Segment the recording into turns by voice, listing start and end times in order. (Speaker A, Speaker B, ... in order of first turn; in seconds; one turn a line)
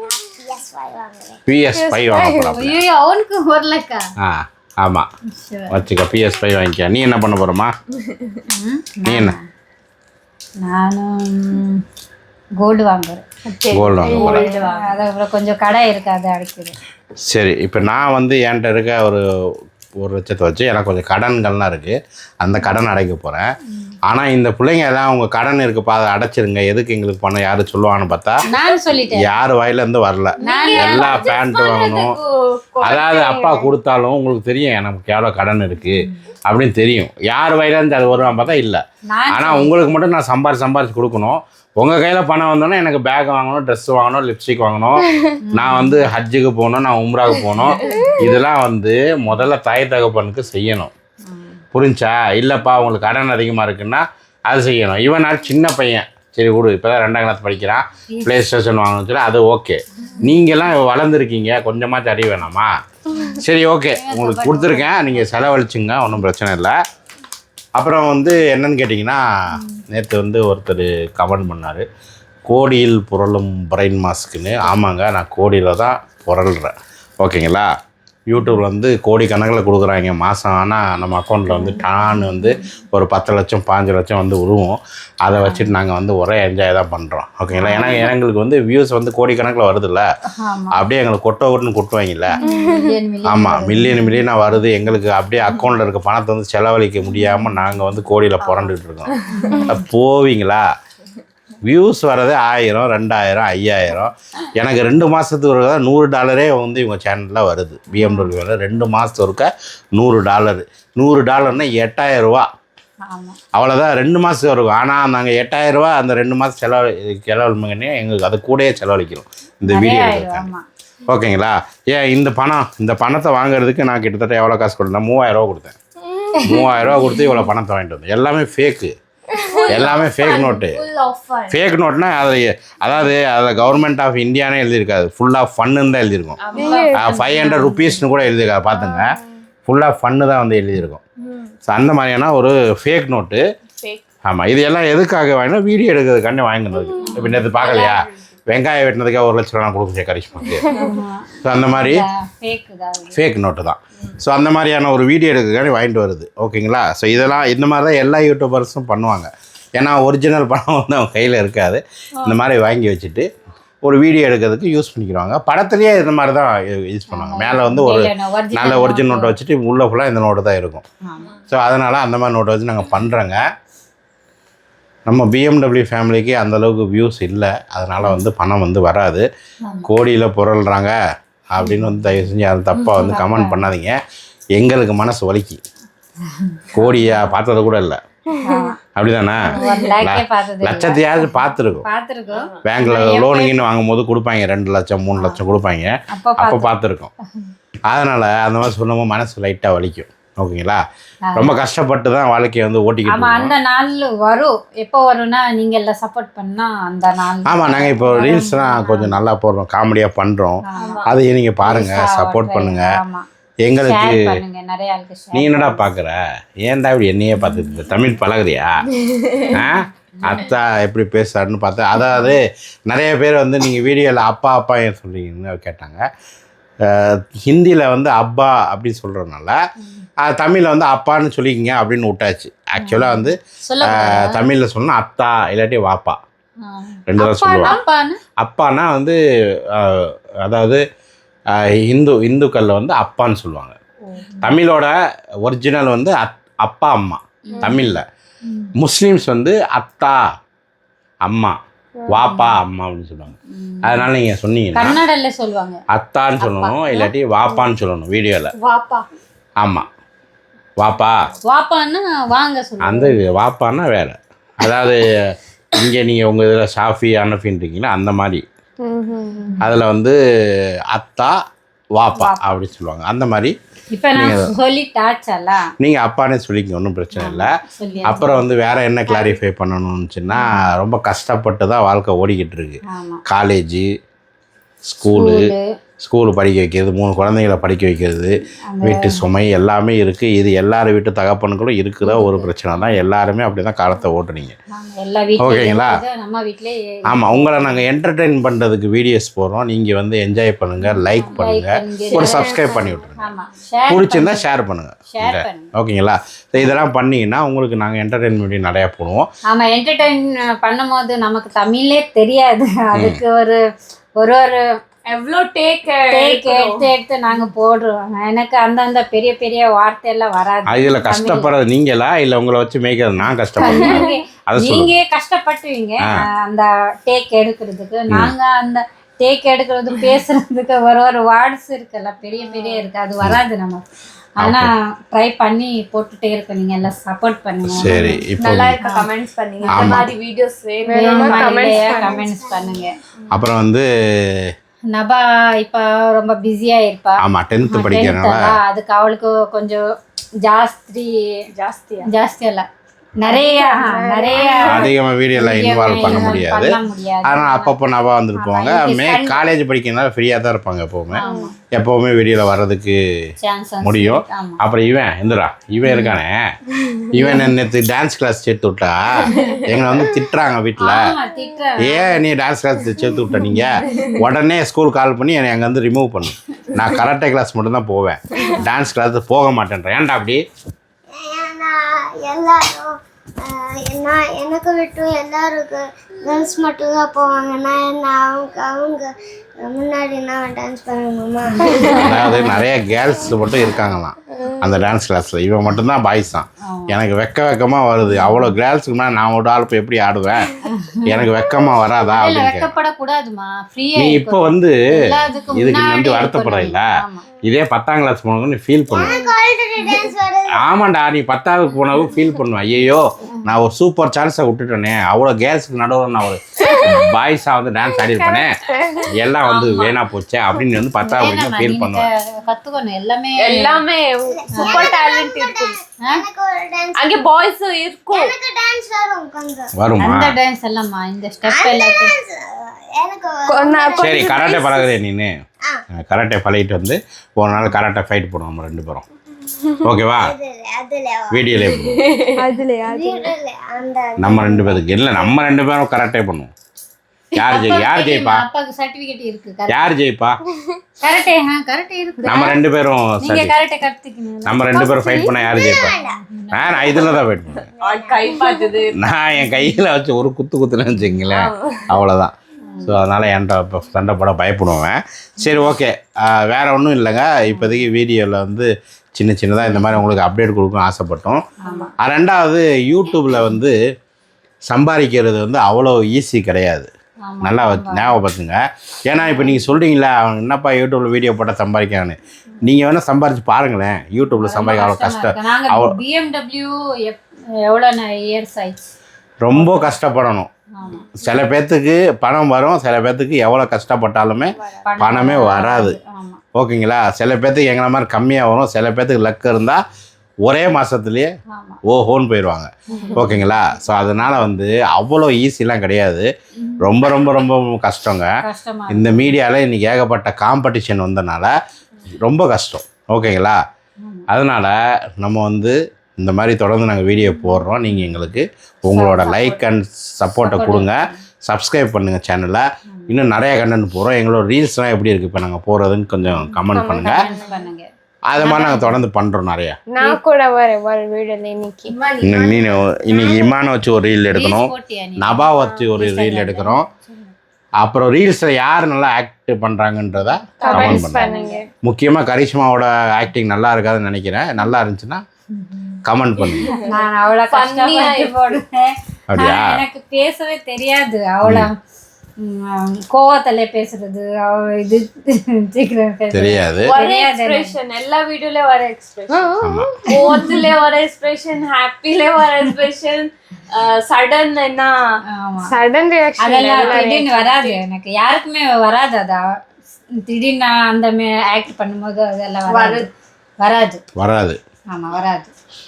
Speaker A: 0.2-1.4
Speaker B: 1.5-2.8
Speaker C: 1.7-2.5
Speaker D: 2.5-4.0
Speaker B: 4.2-5.1
Speaker D: 5.3-5.8
Speaker B: 5.7-7.7
Speaker E: 8.1-8.4
Speaker D: 8.5-9.4
Speaker B: 9.0-9.4
Speaker D: 10.6-11.8
Speaker D: 12.6-13.2
Speaker E: 13.4-14.9
Speaker B: 13.7-14.4
Speaker C: 14.1-14.5
Speaker D: 14.4-16.7
Speaker B: 17.3-19.2
Speaker B: 20.0-23.4
Speaker B: 24.1-28.4
Speaker D: 28.5-29.4
Speaker B: 29.1-32.2
Speaker E: 30.4-33.4
Speaker D: 30.4-31.2
Speaker B: 32.8-50.9
Speaker D: 39.1-39.8
Speaker D: 45.5-46.1
Speaker D: 51.3-51.6
Speaker B: 51.7-62.7
Speaker D: 58.1-58.4
Speaker B: 63.3-66.7
Speaker D: 63.9-65.4
Speaker B: 67.8-71.8
Speaker B: 72.5-77.7
Speaker B: 78.3-90.0
Speaker D: 81.5-82.5
Speaker D: 85.4-85.8
Speaker D: 87.5-88.1
Speaker D: 90.4-90.8
Speaker B: 90.7-92.4
Speaker D: 92.3-94.3
Speaker C: 92.4-93.0
Speaker B: 93.2-100.6
Speaker D: 97.1-97.4
Speaker D: 98.4-98.7
Speaker E: 99.1-99.5
Speaker D: 99.3-99.8
Speaker B: 101.6-112.5
Speaker D: 107.9-108.3
Speaker D: 113.1-113.4
Speaker B: 113.5-120.5
Speaker D: 119.7-120.6
Speaker B: 121.0-125.8
Speaker C: 126.2-126.8
Speaker B: 126.4-128.9
Speaker D: 126.4-127.3
Speaker E: 129.4-131.7
Speaker B: 129.7-130.8
Speaker B: 131.5-136.4
Speaker E: 136.4-137.5
Speaker C: 136.5-137.4
Speaker B: 136.9-141.0
Speaker D: 137.4-138.0
Speaker E: 138.7-139.0
Speaker B: 141.7-143.4
Speaker B: 144.2-150.7
Speaker D: 147.0-147.5
Speaker E: 147.1-148.1
Speaker E: 150.7-151.0
Speaker D: 150.8-153.2
Speaker B: 151.4-152.0
Speaker B: 153.1-163.2
Speaker B: 163.8-170.8
Speaker D: 167.1-169.4
Speaker D: 171.0-171.3
Speaker B: 171.5-173.4
Speaker B: 175.1-179.2
Speaker D: 178.0-178.2
Speaker D: 179.6-179.9
Speaker B: 179.8-180.9
Speaker B: 181.5-184.0
Speaker D: 181.6-182.2
Speaker D: 182.9-183.7
Speaker B: 184.6-185.6
Speaker D: 186.3-187.3
Speaker B: 186.7-188.0
Speaker D: 188.4-188.8
Speaker C: 188.4-188.7
Speaker B: 188.8-191.9
Speaker D: 189.5-193.7
Speaker E: 189.6-190.0
Speaker E: 192.3-192.6
Speaker B: 192.6-197.1
Speaker D: 195.2-195.4
Speaker D: 196.1-196.7
Speaker B: 197.9-200.8
Speaker D: 201.3-201.6
Speaker B: 201.3-203.5
Speaker D: 203.0-209.2
Speaker B: 207.4-212.9
Speaker D: 210.7-211.0
Speaker E: 210.8-211.1
Speaker D: 211.6-213.2
Speaker B: 213.6-214.4
Speaker D: 213.8-215.9
Speaker B: 215.3-218.8
Speaker D: 217.4-217.8
Speaker E: 218.9-219.5
Speaker B: 219.5-226.0
Speaker D: 220.2-220.4
Speaker B: 226.8-229.5
Speaker B: 230.2-236.2
Speaker D: 232.8-234.5
Speaker D: 236.6-238.2
Speaker B: 237.1-237.8
Speaker B: 238.4-239.2
Speaker B: 239.7-240.8
Speaker B: 241.5-243.7
Speaker D: 244.1-244.6
Speaker B: 244.4-244.9
Speaker B: 245.4-248.0
Speaker D: 247.4-248.7
Speaker C: 247.5-247.8
Speaker B: 248.8-250.2
Speaker B: 251.2-251.5
Speaker C: 252.0-252.4
Speaker B: 252.1-255.0
Speaker D: 253.5-254.1
Speaker D: 254.7-255.8
Speaker B: 255.9-258.5
Speaker D: 256.4-257.7
Speaker E: 258.5-259.1
Speaker B: 260.8-261.2
Speaker D: 261.4-263.2
Speaker B: 262.8-265.0
Speaker B: 265.8-268.4
Speaker C: 268.8-269.6
Speaker D: 269.4-269.8
Speaker B: 269.6-270.1
Speaker B: 270.9-271.3
Speaker B: 271.9-273.5
Speaker D: 272.1-272.5
Speaker D: 273.9-275.7
Speaker B: 274.1-274.5
Speaker B: 275.8-277.5
Speaker D: 277.1-278.4
Speaker B: 278.0-283.9
Speaker D: 279.1-279.4
Speaker D: 282.9-283.2
Speaker B: 284.9-294.5
Speaker D: 285.1-285.6
Speaker D: 288.7-289.2
Speaker D: 292.0-293.0
Speaker D: 294.7-297.9
Speaker B: 295.4-296.0
Speaker B: 297.1-303.3
Speaker D: 300.8-304.4
Speaker A: 302.1-303.1
Speaker B: 303.9-309.3
Speaker D: 305.1-305.7
Speaker D: 309.5-313.6
Speaker B: 312.9-313.2
Speaker D: 314.2-314.6
Speaker E: 315.1-316.9
Speaker D: 316.0-321.5
Speaker B: 320.7-324.9
Speaker D: 323.2-333.8
Speaker C: 323.6-324.0
Speaker B: 328.1-328.3
Speaker B: 334.4-334.7
Speaker D: 334.4-338.2
Speaker B: 337.6-338.8
Speaker E: 338.4-341.5
Speaker D: 338.8-339.1
Speaker D: 339.6-340.0
Speaker B: 339.7-340.1
Speaker C: 340.9-342.2
Speaker D: 340.9-342.9
Speaker A: 341.5-342.9
Speaker B: 343.3-344.5
Speaker D: 344.9-349.8
Speaker B: 347.2-348.6
Speaker D: 350.4-351.1
Speaker E: 351.5-352.1
Speaker D: 352.0-352.6
Speaker D: 353.2-357.7
Speaker A: 353.2-354.9
Speaker B: 354.6-363.0
Speaker D: 358.4-359.5
Speaker D: 361.1-361.5
Speaker C: 361.2-361.5
Speaker D: 363.4-364.6
Speaker B: 363.8-366.4
Speaker D: 365.8-366.2
Speaker B: 367.1-371.0
Speaker D: 367.2-367.5
Speaker D: 370.8-372.0
Speaker B: 371.8-380.4
Speaker D: 373.4-373.7
Speaker A: 381.1-389.1
Speaker A: 389.6-392.0
Speaker D: 391.6-392.7
Speaker B: 391.9-402.7
Speaker C: 394.4-394.7
Speaker D: 396.6-397.0
Speaker D: 398.1-398.6
Speaker D: 400.6-401.3
Speaker D: 402.1-407.2
Speaker B: 403.9-404.8
Speaker B: 405.4-406.9
Speaker B: 407.4-409.2
Speaker A: 408.9-410.7
Speaker C: 409.0-409.3
Speaker B: 410.6-418.6
Speaker C: 416.7-417.0
Speaker C: 418.1-419.1
Speaker B: 419.1-422.0
Speaker D: 419.4-420.0
Speaker D: 421.0-423.8
Speaker E: 423.4-425.8
Speaker A: 424.3-427.2
Speaker D: 424.5-424.9
Speaker E: 426.9-428.3
Speaker A: 428.1-429.7
Speaker B: 429.8-430.4
Speaker D: 430.0-432.1
Speaker A: 431.4-434.7
Speaker C: 433.5-434.8
Speaker B: 434.0-435.3
Speaker B: 435.9-439.0
Speaker B: 439.8-440.3
Speaker A: 440.2-441.5
Speaker B: 441.3-442.0
Speaker E: 441.7-442.3
Speaker C: 442.3-443.3
Speaker A: 442.8-445.3
Speaker B: 444.2-446.5
Speaker B: 447.4-448.4
Speaker D: 447.4-449.9
Speaker B: 449.7-450.4
Speaker D: 451.0-452.6
Speaker B: 452.2-453.6
Speaker D: 453.2-455.3
Speaker B: 454.4-455.9
Speaker A: 454.8-458.5
Speaker D: 456.0-457.0
Speaker B: 456.5-457.7
Speaker E: 457.8-458.9
Speaker B: 458.9-473.8
Speaker D: 459.4-459.8
Speaker E: 461.3-462.0
Speaker D: 462.7-463.0
Speaker D: 467.4-468.0
Speaker D: 469.6-470.0
Speaker D: 471.6-471.9
Speaker E: 471.6-471.9
Speaker B: 474.7-476.9
Speaker D: 477.2-478.2
Speaker B: 477.4-486.0
Speaker D: 479.1-479.7
Speaker D: 484.2-488.9
Speaker B: 489.4-490.5
Speaker D: 489.5-489.9
Speaker D: 490.8-491.1
Speaker B: 491.1-496.0
Speaker C: 494.6-494.9
Speaker D: 494.8-496.4
Speaker B: 496.5-499.8
Speaker B: 500.4-501.3
Speaker D: 501.5-501.8
Speaker B: 501.8-506.2
Speaker D: 502.9-503.6
Speaker E: 503.0-503.2
Speaker D: 506.6-507.0
Speaker B: 506.8-508.3
Speaker D: 508.4-509.4
Speaker B: 508.9-511.5
Speaker B: 512.2-513.6
Speaker B: 514.3-527.2
Speaker D: 517.2-518.2
Speaker D: 518.9-519.7
Speaker D: 520.3-521.2
Speaker D: 522.9-523.2
Speaker D: 526.2-527.9
Speaker C: 526.7-527.6
Speaker B: 528.3-529.8
Speaker C: 528.4-528.7
Speaker D: 528.5-528.9
Speaker C: 529.9-531.9
Speaker E: 531.9-533.6
Speaker B: 532.2-536.9
Speaker D: 534.3-537.3
Speaker B: 537.8-545.2
Speaker D: 540.3-541.5
Speaker C: 540.6-541.6
Speaker E: 540.7-541.5
Speaker D: 545.6-545.9
Speaker B: 546.0-546.7
Speaker E: 546.5-548.6
Speaker D: 546.6-551.8
Speaker B: 549.3-549.8
Speaker B: 551.4-551.7
Speaker D: 552.4-557.7
Speaker B: 556.3-556.9
Speaker E: 556.8-565.0
Speaker C: 559.3-560.1
Speaker B: 559.6-560.0
Speaker D: 560.2-560.6
Speaker D: 565.4-565.8
Speaker C: 565.6-567.3
Speaker D: 566.4-569.4
Speaker E: 566.7-567.8
Speaker D: 570.2-573.1
Speaker E: 572.7-573.1
Speaker D: 573.6-574.0
Speaker B: 574.2-574.6
Speaker D: 574.9-575.5